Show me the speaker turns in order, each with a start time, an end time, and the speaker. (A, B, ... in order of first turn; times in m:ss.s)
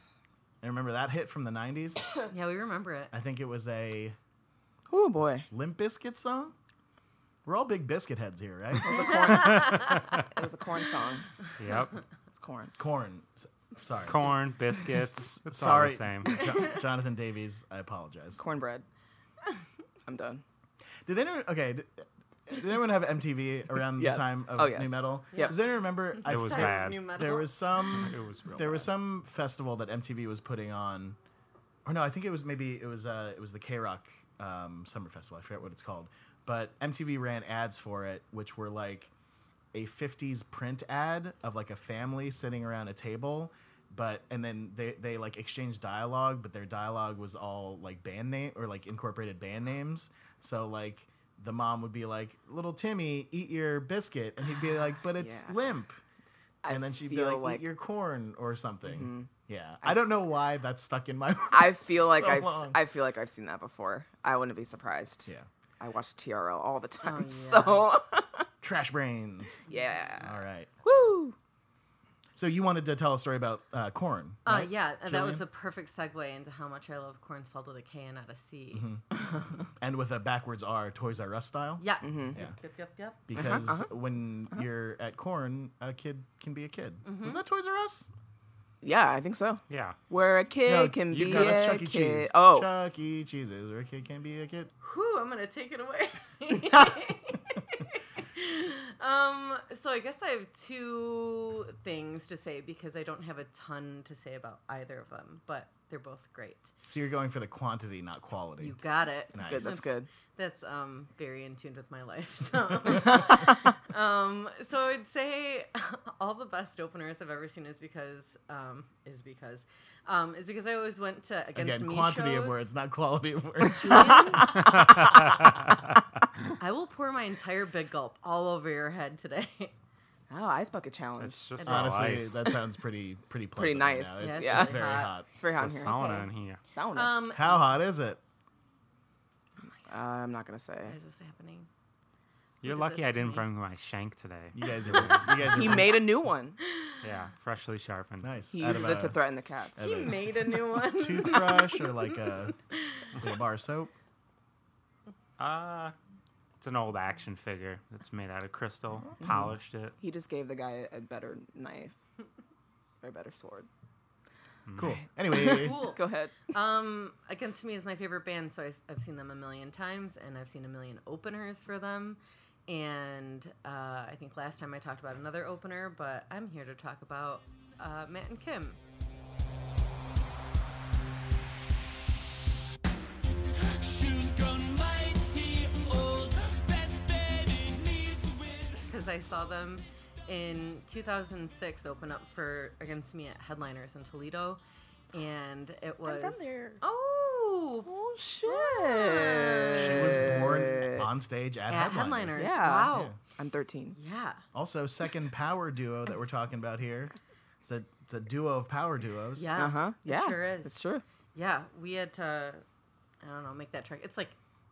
0:00.6-0:02.1 A
0:02.3-0:03.1 B
0:03.1-0:04.2 A
0:04.9-0:05.5 C
0:05.5-0:06.5 A
0:07.4-0:09.5 A
0:08.8-0:11.3 C
0:09.7-0:10.2 D
0:11.6-0:12.0 D
0:12.3-0:12.7 C
0:12.8-0:18.4 A
0:14.0-0:16.5 D
0:18.4-0:18.9 C
0:20.1-0:20.4 C
0:21.0-0:31.2 A
0:23.9-0:25.5 C
0:26.2-0:27.6 B
0:26.2-0:27.2 D
0:27.8-0:28.9 D
0:31.9-0:39.1 A
0:39.7-0:56.0 A
0:55.2-0:55.6 C
0:56.6-0:57.6 C
0:56.7-1:02.8 A
0:58.8-0:59.3 C
1:01.5-1:08.4 C
1:07.0-1:07.9 B
1:08.6-1:09.7 A
1:09.7-1:11.4 C
1:10.2-1:10.7 A
1:12.4-1:15.4 A
1:14.4-1:18.9 B
1:18.7-1:19.0 A
1:19.8-1:22.6 A
1:21.8-1:23.2 B
1:22.0-1:22.4 C
1:23.3-1:28.1 A
1:23.4-1:23.9 C
1:27.0-1:27.4 B
1:28.8-1:32.7 C
1:29.7-1:30.0 D
1:30.6-1:34.7 A
1:31.1-1:31.7 D
1:34.8-1:46.7 B
1:46.9-1:48.8 A
1:48.6-2:02.7 B
1:49.3-1:49.9 A
1:49.4-1:50.1 C
2:01.5-2:04.4 A
2:03.7-2:04.8 B
2:03.9-2:04.9 C
2:06.6-2:09.7 B
2:10.3-2:11.5 C
2:11.2-2:12.5 D
2:11.6-2:11.9 B
2:11.6-2:15.3 A
2:13.6-2:17.2 C
2:14.2-2:15.1 B
2:15.5-2:16.6 D
2:16.9-2:17.6 B
2:17.3-2:18.2 A
2:19.9-2:21.0 C
2:20.9-2:21.7 B
2:22.6-2:23.4 B
2:22.6-2:25.9 D
2:24.5-2:26.1 A
2:25.4-2:26.6 C
2:26.6-2:27.0 B
2:27.0-2:29.0 D
2:28.2-2:32.6 A
2:28.5-2:29.8 C
2:29.8-2:33.3 B
2:33.2-2:33.9 A
2:35.4-2:35.9 D
2:36.6-2:40.0 D
2:40.0-2:41.9 C
2:43.0-2:43.7 C
2:44.7-2:45.0 D
2:44.8-2:45.8 A
2:44.8-2:46.3 C
2:45.4-2:58.8 B
3:03.9-3:08.5 E
3:08.8-3:14.6 B
3:15.1-3:17.9 B
3:16.0-3:16.8 C
3:17.8-3:21.1 C
3:18.4-3:20.4 B
3:19.7-3:23.2 A
3:21.7-3:23.1 B
3:22.4-3:24.0 C
3:23.9-3:24.4 B
3:24.5-3:29.5 A
3:29.4-3:30.8 B
3:29.5-3:31.0 C
3:31.3-3:32.6 B
3:33.2-3:34.4 B